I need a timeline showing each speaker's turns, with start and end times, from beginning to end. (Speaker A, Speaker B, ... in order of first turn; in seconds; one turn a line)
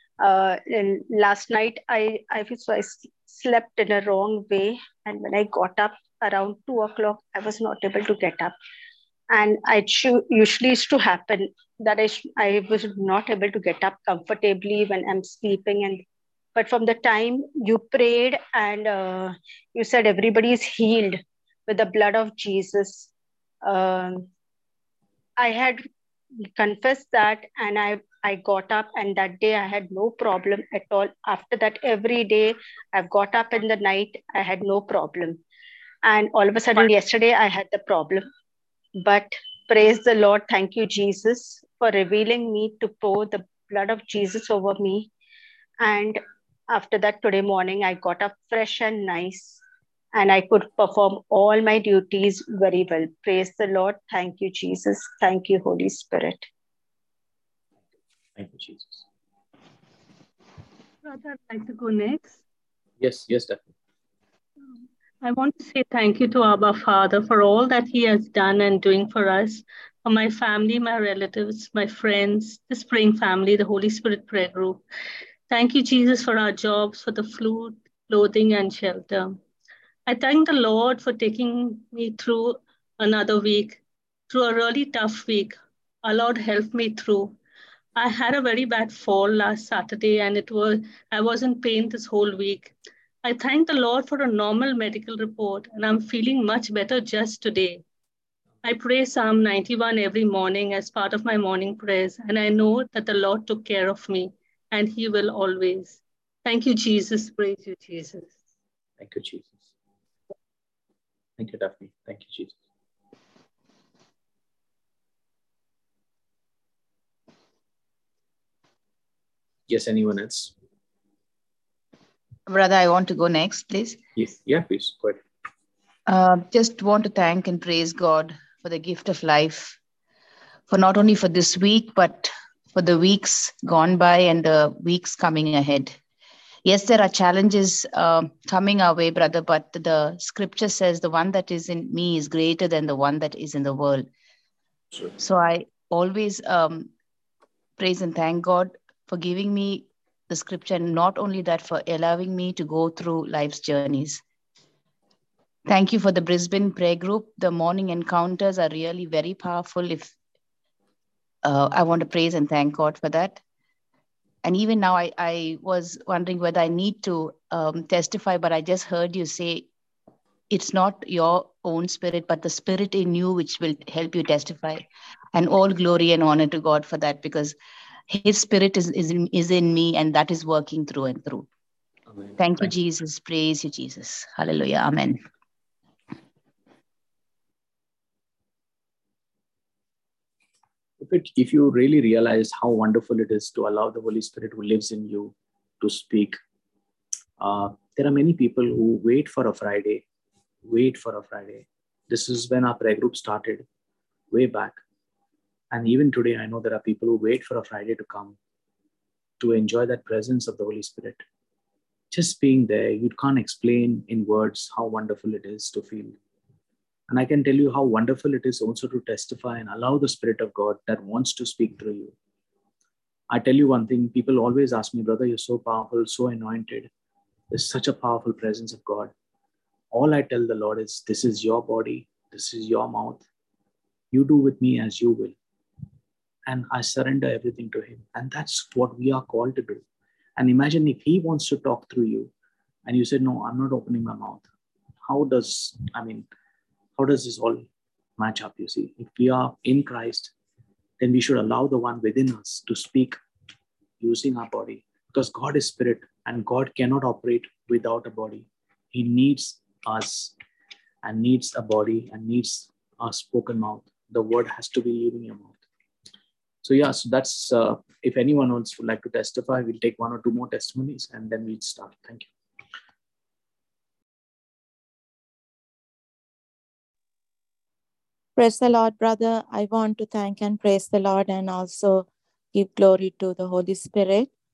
Speaker A: 0.2-8.6
Speaker A: 9.3-16.0
Speaker A: 16.6-23.1
Speaker A: 23.6-24.3
Speaker A: 25.4-25.8
Speaker A: 26.5-35.4
Speaker A: 36.0-38.2
Speaker A: 39.0-45.1
Speaker A: 45.8-49.6
Speaker A: 50.1-56.5
Speaker B: 58.4-59.0
Speaker C: 61.0-62.4
Speaker B: 63.0-63.7
Speaker C: 65.2-74.8
Speaker C: 75.5-79.4
Speaker C: 80.1-83.8
Speaker C: 84.3-87.4
Speaker C: 88.0-92.7
Speaker C: 93.2-97.8
Speaker C: 98.6-108.3
Speaker B: 109.0-109.7
Speaker B: 111.4-112.6
Speaker B: 119.7-120.5
Speaker D: 122.5-124.0
Speaker B: 124.2-125.2
Speaker D: 126.1-129.8
Speaker D: 130.7-136.0
Speaker D: 136.7-144.1
Speaker D: 145.2-146.9
Speaker D: 147.8-154.2
Speaker D: 155.7-160.2
Speaker D: 161.4-163.4
Speaker D: 164.4-169.7
Speaker D: 170.5-177.6
Speaker D: 178.1-181.5
Speaker B: 182.2-182.7
Speaker D: 182.4-185.2
Speaker B: 191.0-196.4
Speaker B: 197.4-200.0
Speaker B: 200.7-203.7
Speaker B: 204.3-204.8
Speaker B: 205.7-208.4
Speaker B: 209.4-211.2
Speaker B: 212.1-216.2
Speaker B: 217.1-222.1
Speaker B: 223.3-226.9
Speaker B: 227.5-229.1
Speaker B: 229.9-233.2
Speaker B: 234.1-235.3
Speaker B: 236.5-239.8
Speaker B: 240.4-242.3
Speaker B: 242.9-244.5
Speaker B: 245.1-246.3
Speaker B: 247.0-247.6
Speaker B: 248.2-250.3
Speaker B: 251.0-253.2
Speaker B: 254.0-260.4
Speaker B: 261.0-265.6
Speaker B: 266.6-272.3
Speaker E: 278.4-284.3